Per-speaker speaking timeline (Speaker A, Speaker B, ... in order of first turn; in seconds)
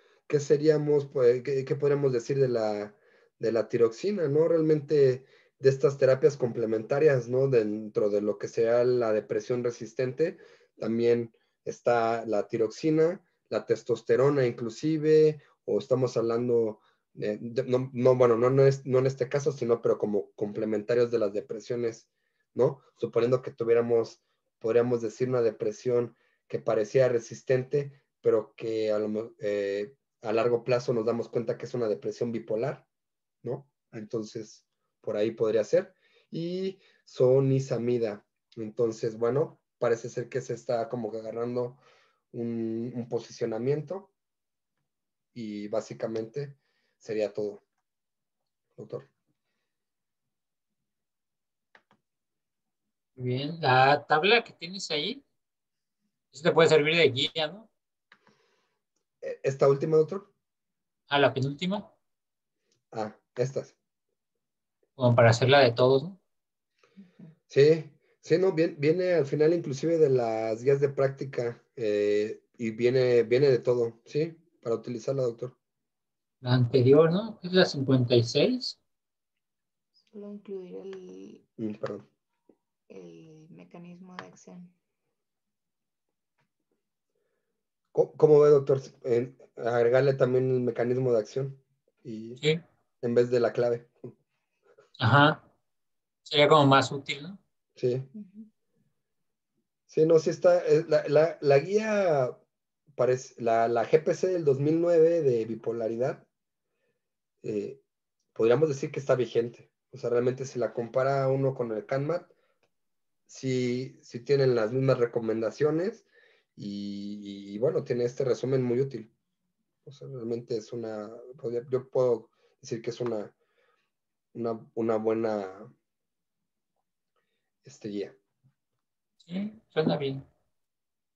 Speaker A: 0.3-32.9, 33.4-44.1, 45.3-47.6, 48.8-49.1, 59.2-60.3, 62.9-63.8, 67.5-75.6, 81.6-82.1, 87.9-92.4, 93.0-94.1, 97.8-98.1, 99.9-102.4, 103.0-106.3, 107.4-107.8, 108.3-112.3, 113.3-119.1, 119.9-123.3, 124.3-125.7, 127.6-128.2
Speaker B: 53.2-55.2, 56.3-57.7, 61.1-61.9, 65.0-66.2, 76.4-78.8, 95.0-95.5, 96.3-97.4, 129.2-130.2
Speaker C: 80.0-81.5, 82.9-84.7, 98.1-98.5